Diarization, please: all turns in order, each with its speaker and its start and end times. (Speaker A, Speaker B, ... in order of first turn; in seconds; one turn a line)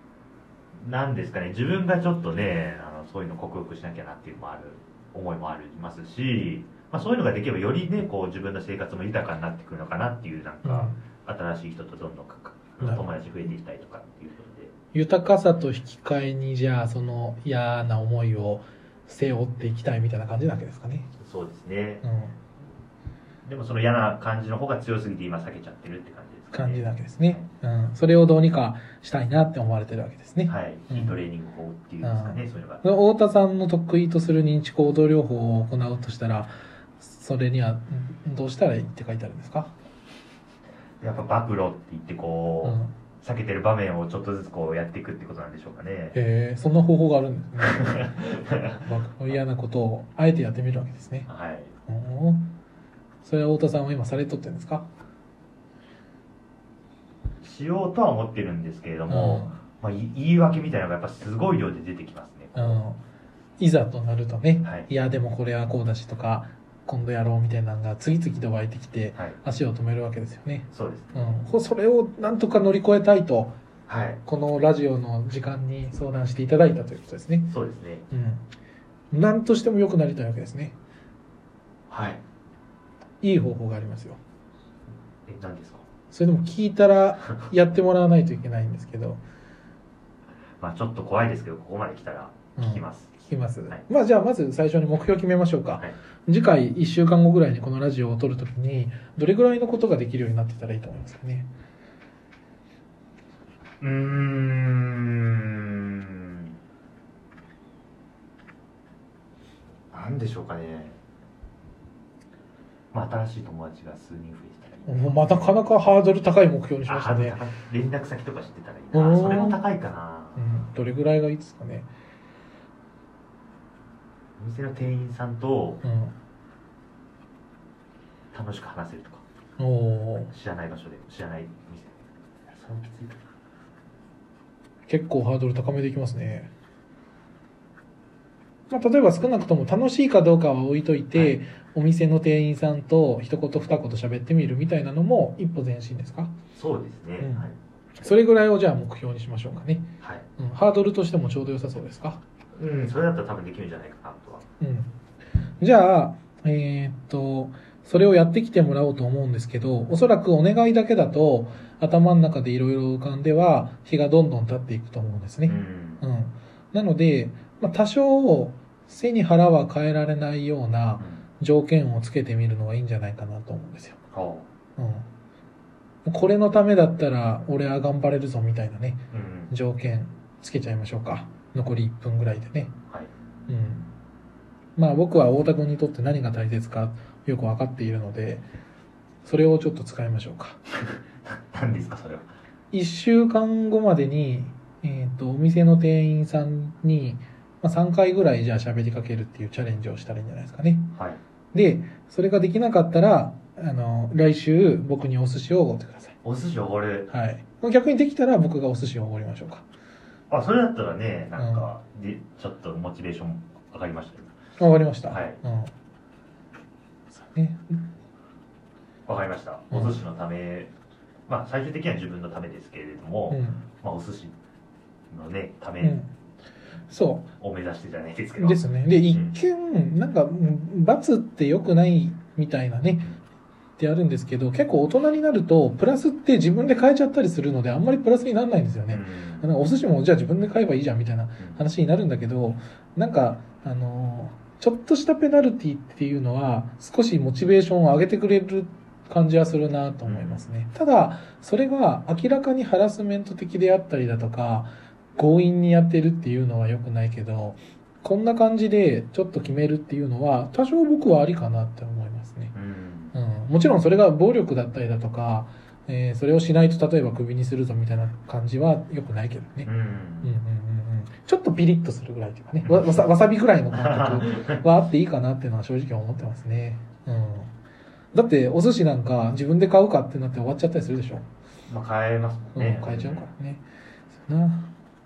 Speaker A: 0.8-14.7
Speaker B: 10.6-11.0
Speaker B: 14.9-21.1
Speaker A: 21.2-22.0
Speaker B: 22.0-22.3
Speaker A: 23.4-27.4
Speaker B: 26.5-31.2
Speaker A: 30.4-32.8
Speaker B: 32.0-39.7
Speaker A: 41.0-46.2
Speaker B: 42.6-42.9
Speaker B: 46.1-48.2
Speaker A: 47.6-49.3
Speaker B: 48.8-51.3
Speaker A: 51.3-51.7
Speaker B: 51.9-52.5
Speaker B: 53.2-54.9
Speaker A: 57.4-62.8
Speaker B: 59.1-59.6
Speaker B: 62.5-63.0
Speaker B: 63.6-73.5
Speaker A: 70.7-71.3
Speaker A: 73.9-74.2
Speaker B: 74.2-77.5
Speaker A: 77.5-78.0
Speaker B: 78.1-78.4
Speaker B: 79.1-80.8
Speaker A: 81.9-82.2
Speaker B: 83.2-84.2
Speaker A: 85.2-85.8
Speaker B: 86.1-89.2
Speaker A: 90.6-93.1
Speaker B: 92.6-101.5
Speaker A: 103.8-106.5
Speaker A: 109.9-111.0
Speaker A: 112.9-115.5
Speaker B: 114.8-117.4
Speaker A: 116.8-120.5
Speaker B: 118.9-119.6
Speaker B: 120.3-121.9
Speaker A: 124.4-125.8
Speaker B: 125.8-126.1
Speaker A: 128.3-129.2
Speaker B: 129.6-130.3
Speaker A: 130.3-133.2
Speaker B: 134.9-136.5
Speaker B: 138.7-146.3
Speaker A: 146.5-147.5
Speaker B: 147.2-147.5
Speaker B: 148.0-152.2
Speaker A: 150.0-150.2
Speaker A: 152.5-154.4
Speaker B: 154.6-154.9
Speaker B: 155.6-174.0
Speaker A: 165.4-166.0
Speaker A: 171.0-171.2
Speaker A: 174.1-174.5
Speaker B: 174.8-175.1
Speaker B: 176.1-182.8
Speaker A: 179.1-179.5
Speaker B: 183.5-183.9
Speaker B: 184.8-188.4
Speaker B: 189.2-190.6
Speaker A: 190.9-192.3
Speaker B: 192.7-200.9
Speaker A: 200.9-201.2
Speaker B: 201.5-206.2
Speaker A: 206.2-207.1
Speaker B: 207.1-209.6
Speaker A: 210.3-214.3
Speaker B: 211.4-211.7
Speaker B: 214.6-215.7
Speaker A: 215.1-215.4
Speaker B: 217.1-217.8
Speaker A: 219.1-220.7
Speaker B: 219.7-219.9
Speaker A: 221.3-224.3
Speaker B: 223.3-223.6
Speaker A: 225.1-226.0
Speaker B: 225.8-226.1
Speaker B: 226.9-227.3
Speaker A: 227.4-229.4
Speaker B: 228.4-233.2
Speaker B: 233.8-262.5
Speaker A: 238.9-239.5
Speaker A: 250.0-250.5
Speaker A: 262.5-263.1
Speaker B: 263.1-269.7
Speaker A: 269.6-270.3
Speaker B: 270.2-277.5
Speaker A: 272.6-273.1
Speaker A: 273.7-274.6
Speaker B: 278.1-281.2
Speaker A: 281.7-283.3
Speaker B: 282.5-283.6
Speaker B: 284.2-284.7